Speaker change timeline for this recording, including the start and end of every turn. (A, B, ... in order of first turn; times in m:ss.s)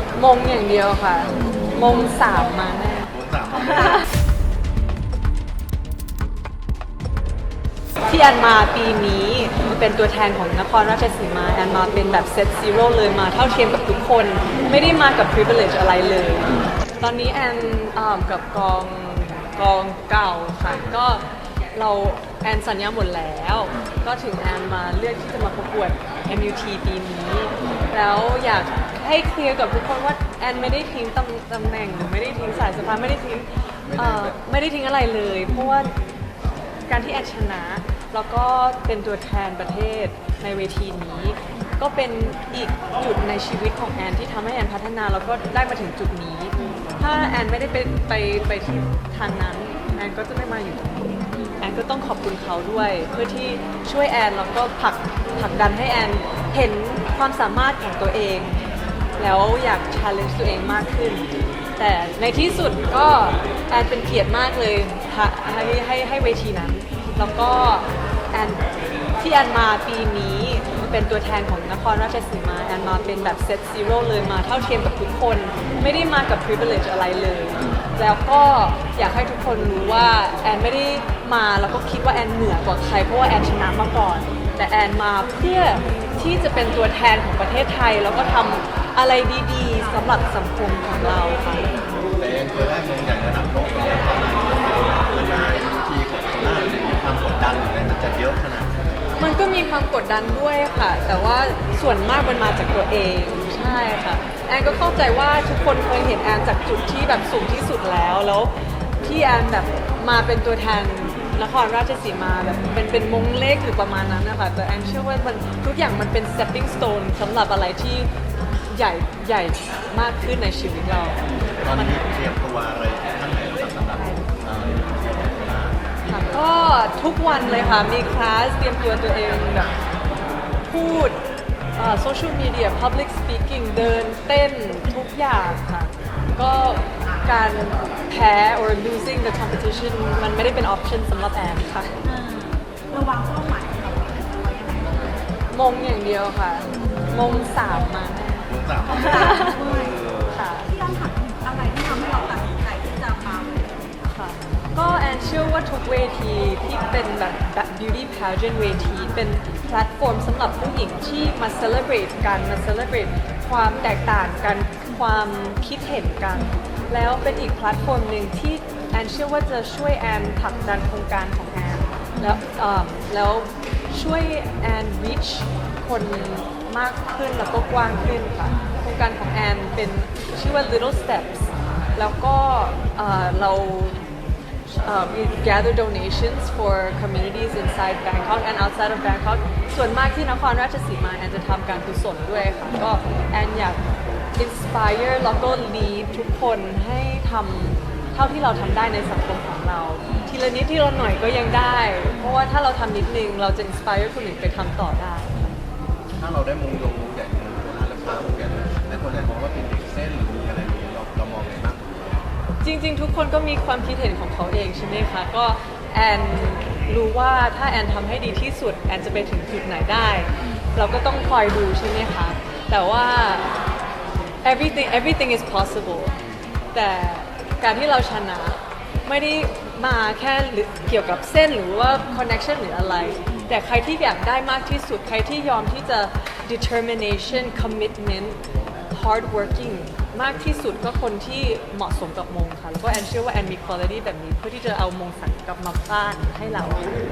0:00.2-0:03.1 A
0:03.1-0:04.0 B
0:08.1-0:36.0 A
0:33.8-0:34.4 B
0:36.9-0:58.6 A
0:46.6-0:46.8 C
0:59.2-1:01.2 A
1:01.8-1:08.6 A
1:09.2-1:31.7 A
1:32.1-1:38.8 B
1:39.2-1:58.1 A
1:58.7-2:01.2 A
2:01.6-2:06.4 B
2:01.7-2:02.1 A
2:06.1-2:09.7 A
2:10.7-2:11.2 A
2:11.8-2:22.0 A
2:22.0-2:25.2 C
2:25.5-2:29.6 A
2:28.5-2:30.4 B
2:28.9-2:29.9 C
2:30.3-2:30.7 A
2:30.7-2:33.9 C
2:34.1-3:04.0 A
2:52.2-2:52.4 C
3:04.8-3:13.8 A
3:14.4-3:25.4 A
3:20.1-3:20.3 B
3:26.2-3:32.2 B
3:32.6-3:43.5 A
3:44.4-3:46.2 A
3:46.7-3:58.4 A
3:58.9-4:07.0 A